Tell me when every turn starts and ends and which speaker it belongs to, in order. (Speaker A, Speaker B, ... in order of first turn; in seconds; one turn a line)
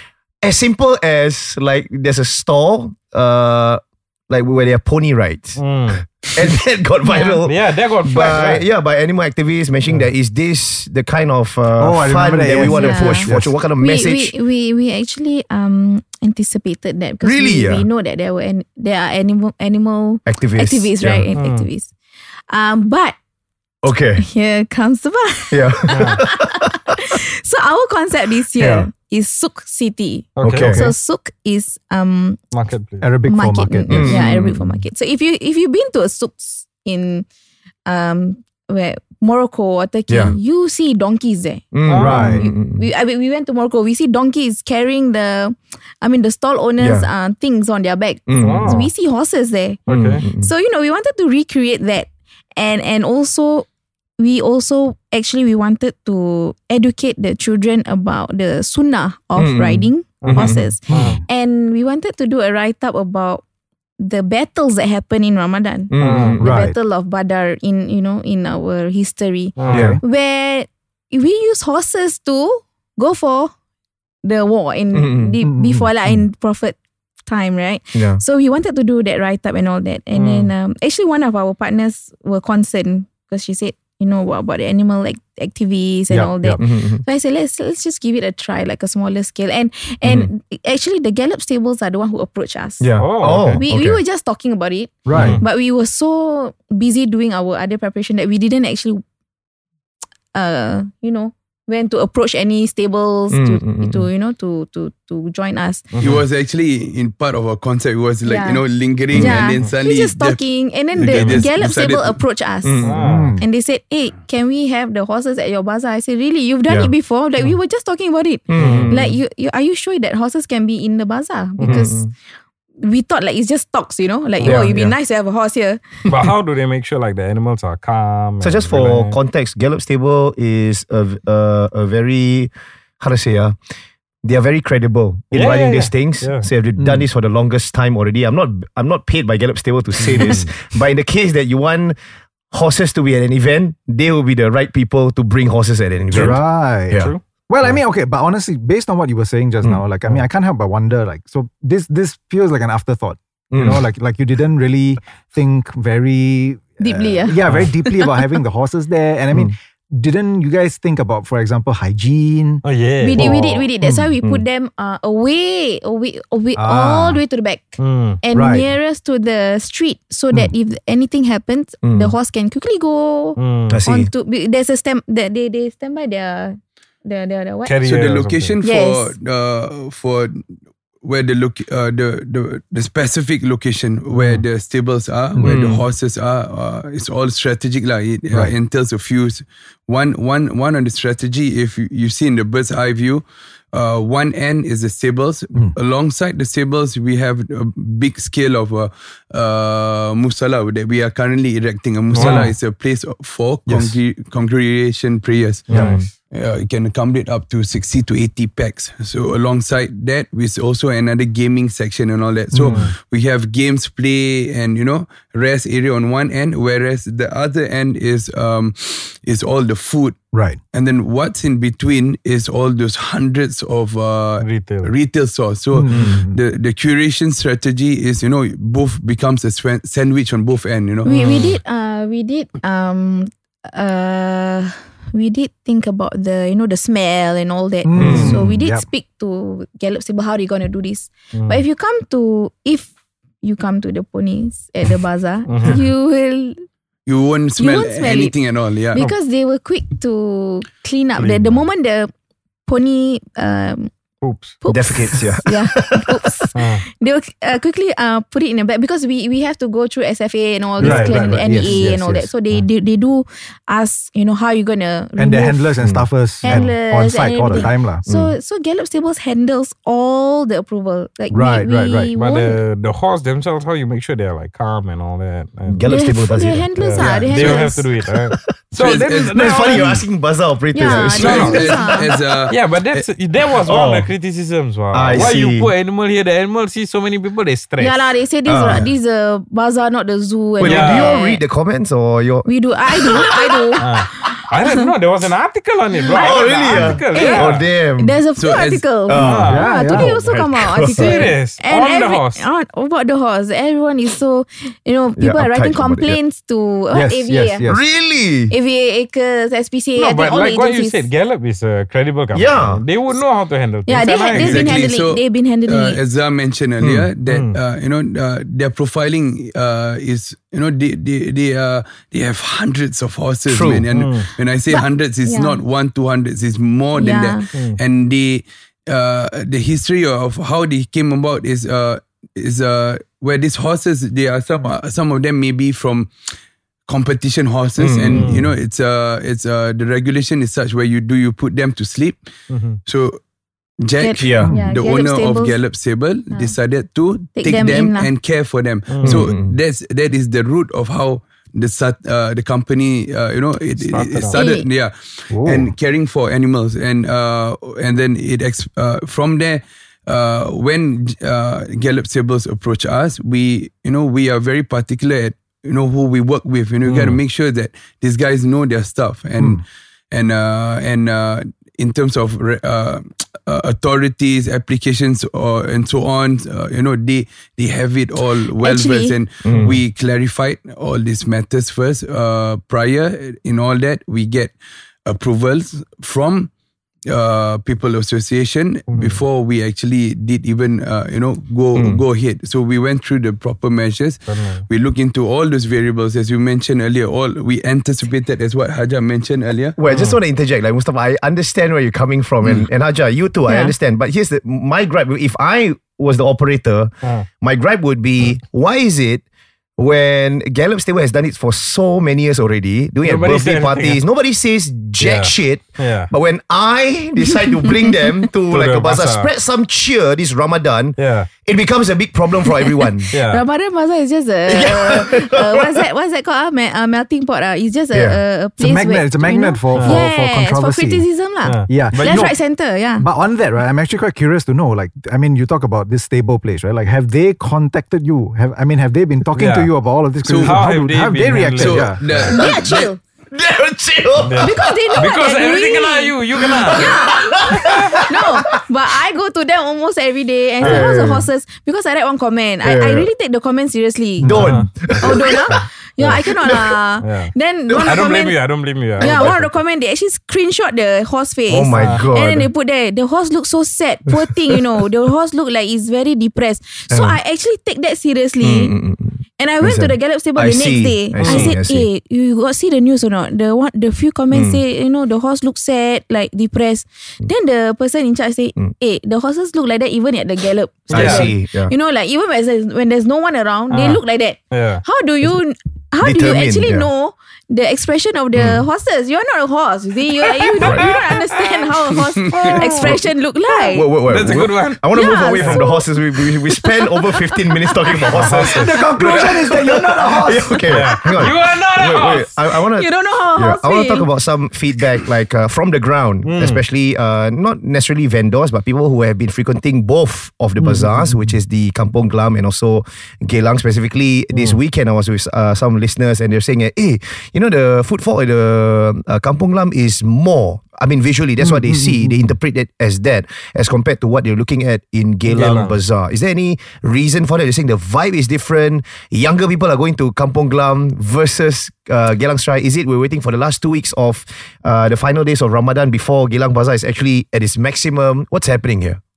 Speaker A: 0.4-5.6
Speaker B: 5.6-6.0
Speaker A: 6.2-14.3
Speaker C: 7.0-7.4
Speaker B: 7.4-8.7
Speaker D: 11.8-13.5
Speaker C: 12.6-21.9
Speaker A: 17.2-17.9
Speaker A: 20.3-21.3
Speaker B: 21.4-21.7
Speaker C: 22.5-23.1
Speaker A: 23.8-24.2
Speaker C: 24.2-32.4
Speaker A: 25.5-26.9
Speaker B: 25.9-26.2
Speaker A: 28.6-28.9
Speaker B: 30.4-30.8
Speaker A: 30.4-30.8
Speaker B: 32.5-33.1
Speaker D: 33.0-34.2
Speaker C: 33.3-37.3
Speaker A: 33.9-34.6
Speaker C: 37.9-53.7
Speaker A: 40.1-40.4
Speaker A: 41.7-42.9
Speaker B: 41.9-42.4
Speaker D: 42.0-42.4
Speaker A: 46.8-47.1
Speaker A: 48.3-48.9
Speaker B: 48.4-48.9
Speaker B: 49.9-50.2
Speaker A: 49.9-50.5
Speaker C: 54.2-63.4
Speaker A: 59.4-60.7
Speaker B: 60.2-61.2
Speaker D: 60.9-61.2
Speaker C: 64.0-73.5
Speaker A: 65.9-66.4
Speaker B: 66.0-66.4
Speaker D: 66.4-66.8
Speaker B: 69.6-69.9
Speaker A: 69.7-70.0
Speaker D: 69.7-70.0
Speaker C: 74.2-99.0
Speaker A: 74.9-75.3
Speaker D: 75.4-76.2
Speaker A: 77.9-78.2
Speaker B: 80.1-80.5
Speaker D: 86.1-86.6
Speaker A: 86.6-87.0
Speaker A: 92.8-94.0
Speaker B: 93.0-93.6
Speaker D: 95.1-95.4
Speaker B: 95.1-95.4
Speaker C: 100.3-105.9
Speaker A: 103.3-104.1
Speaker B: 105.9-106.2
Speaker E: 106.0-110.4
Speaker C: 108.2-112.8
Speaker E: 111.0-112.2
Speaker B: 111.0-111.5
Speaker A: 112.6-113.0
Speaker B: 112.8-113.3
Speaker D: 113.0-113.4
Speaker C: 113.4-122.1
Speaker A: 118.5-119.0
Speaker B: 118.5-119.2
Speaker B: 121.6-121.9
Speaker A: 121.6-122.1
Speaker C: 122.8-125.8
Speaker B: 124.4-124.8
Speaker A: 124.4-124.9
Speaker B: 126.1-129.2
Speaker A: 128.4-133.6
Speaker A: 134.2-142.0
Speaker B: 135.3-136.5
Speaker D: 136.8-137.1
Speaker B: 140.0-140.5
Speaker A: 142.5-147.1
Speaker D: 146.1-162.6
Speaker B: 146.1-146.4
Speaker B: 146.9-147.8
Speaker A: 153.5-153.8
Speaker C: 156.8-158.0
Speaker B: 162.6-163.7
Speaker C: 163.0-177.8
Speaker D: 163.2-164.1
Speaker D: 166.6-167.2
Speaker B: 167.8-168.2
Speaker D: 168.3-168.7
Speaker A: 171.8-172.1
Speaker B: 173.4-173.8
Speaker A: 173.7-174.1
Speaker B: 177.7-178.6
Speaker E: 177.8-180.4
Speaker C: 178.6-179.2
Speaker E: 181.0-205.7
Speaker D: 185.3-185.6
Speaker A: 185.4-185.8
Speaker B: 202.1-202.5
Speaker D: 202.2-202.5
Speaker D: 203.7-203.9
Speaker B: 205.7-206.1
Speaker D: 205.7-206.0
Speaker A: 205.8-206.1
Speaker E: 206.3-220.2
Speaker D: 212.5-212.9
Speaker B: 212.7-212.9
Speaker D: 220.3-220.6
Speaker E: 220.7-231.1
Speaker B: 224.4-224.9
Speaker D: 225.7-226.4
Speaker C: 231.1-242.9
Speaker B: 231.1-231.6
Speaker D: 237.8-238.9
Speaker A: 238.0-238.4
Speaker B: 241.3-241.6
Speaker C: 243.4-246.6
Speaker B: 245.5-245.8
Speaker E: 247.1-249.1
Speaker C: 247.6-248.4
Speaker C: 248.9-252.1
Speaker B: 251.2-251.7
Speaker C: 252.7-253.9
Speaker B: 254.2-254.6
Speaker C: 254.6-265.7
Speaker A: 254.7-256.5
Speaker B: 256.5-256.8
Speaker D: 260.8-262.6
Speaker B: 260.8-261.8
Speaker D: 265.2-268.1
Speaker A: 265.8-266.6
Speaker C: 266.4-272.6
Speaker A: 268.1-268.4
Speaker D: 271.3-272.1
Speaker B: 272.1-276.0
Speaker A: 275.7-277.5
Speaker C: 275.9-277.9
Speaker B: 276.8-280.0
Speaker D: 277.0-277.5
Speaker A: 278.7-281.7
Speaker E: 278.8-279.2
Speaker C: 280.7-282.1
Speaker B: 280.9-288.1
Speaker E: 281.2-283.1
Speaker A: 283.6-284.1
Speaker A: 284.9-285.7
Speaker C: 287.8-291.4
Speaker A: 288.5-288.9
Speaker A: 290.6-292.5
Speaker B: 290.6-291.1
Speaker C: 292.4-294.9
Speaker B: 293.8-297.6
Speaker C: 296.0-307.6
Speaker A: 296.1-298.2
Speaker E: 298.4-298.8
Speaker A: 299.1-301.2
Speaker B: 299.1-299.9
Speaker D: 299.4-300.1
Speaker B: 300.9-302.4
Speaker A: 305.2-306.2
Speaker D: 306.9-307.8
Speaker A: 307.7-308.5
Speaker C: 308.5-311.1
Speaker B: 310.0-314.9
Speaker A: 312.3-312.8
Speaker C: 313.9-316.0
Speaker E: 314.4-336.1
Speaker B: 317.2-317.6
Speaker A: 323.5-323.9
Speaker B: 323.9-324.3
Speaker C: 324.7-325.6
Speaker C: 326.9-327.5
Speaker B: 327.5-327.8
Speaker E: 336.9-342.2
Speaker A: 337.8-338.3
Speaker B: 338.1-338.5
Speaker B: 342.5-342.8
Speaker E: 342.9-343.2
Speaker E: 343.8-384.5
Speaker C: 344.0-345.6
Speaker A: 344.2-344.5
Speaker D: 344.4-344.7
Speaker C: 347.4-348.1
Speaker B: 348.9-349.3
Speaker A: 349.0-349.5
Speaker B: 353.8-354.4
Speaker C: 354.3-354.6
Speaker D: 355.3-355.7
Speaker B: 366.9-367.2
Speaker C: 378.6-379.2
Speaker A: 379.4-379.8
Speaker E: 385.1-386.5
Speaker E: 387.1-399.8
Speaker B: 388.9-389.2
Speaker A: 391.8-392.0
Speaker B: 394.3-394.6
Speaker A: 399.8-409.2
Speaker B: 399.9-400.2
Speaker C: 403.5-403.7
Speaker A: 409.8-423.1
Speaker B: 413.0-414.0
Speaker B: 415.0-416.1
Speaker B: 418.5-419.3
Speaker B: 421.0-421.3
Speaker C: 423.1-433.0
Speaker B: 423.1-423.4
Speaker A: 424.5-425.8
Speaker A: 427.9-428.2
Speaker D: 428.6-431.1
Speaker B: 429.7-430.1
Speaker B: 431.4-432.3
Speaker D: 431.7-432.4
Speaker D: 433.0-442.0
Speaker B: 439.3-439.7
Speaker E: 440.2-440.7
Speaker B: 440.3-442.4
Speaker E: 441.6-442.9
Speaker A: 442.2-442.7
Speaker C: 442.3-443.0
Speaker A: 443.3-445.0
Speaker B: 444.2-447.0
Speaker C: 444.4-454.4
Speaker A: 446.4-448.0
Speaker B: 447.6-448.0
Speaker B: 450.6-451.1
Speaker A: 450.6-451.3
Speaker A: 452.6-453.1
Speaker B: 454.2-456.2
Speaker A: 454.2-455.6
Speaker C: 455.0-458.4
Speaker A: 456.2-456.8
Speaker B: 457.0-459.6
Speaker C: 458.9-468.8
Speaker A: 459.0-459.3
Speaker A: 461.5-462.5
Speaker B: 461.8-462.1
Speaker A: 466.9-467.2
Speaker A: 468.4-471.9
Speaker C: 469.4-493.9
Speaker B: 471.2-471.6
Speaker A: 474.3-474.6
Speaker B: 480.9-481.3
Speaker A: 480.9-481.7
Speaker B: 483.7-484.8
Speaker A: 486.0-486.9
Speaker B: 490.6-491.2
Speaker B: 492.4-493.0
Speaker A: 492.8-493.1
Speaker A: 493.7-539.0
Speaker B: 494.1-495.6
Speaker C: 494.9-498.2
Speaker B: 498.2-498.9
Speaker D: 498.4-500.6
Speaker B: 500.6-502.4
Speaker C: 502.7-504.1
Speaker B: 506.2-506.6
Speaker D: 521.4-522.3
Speaker B: 525.3-525.8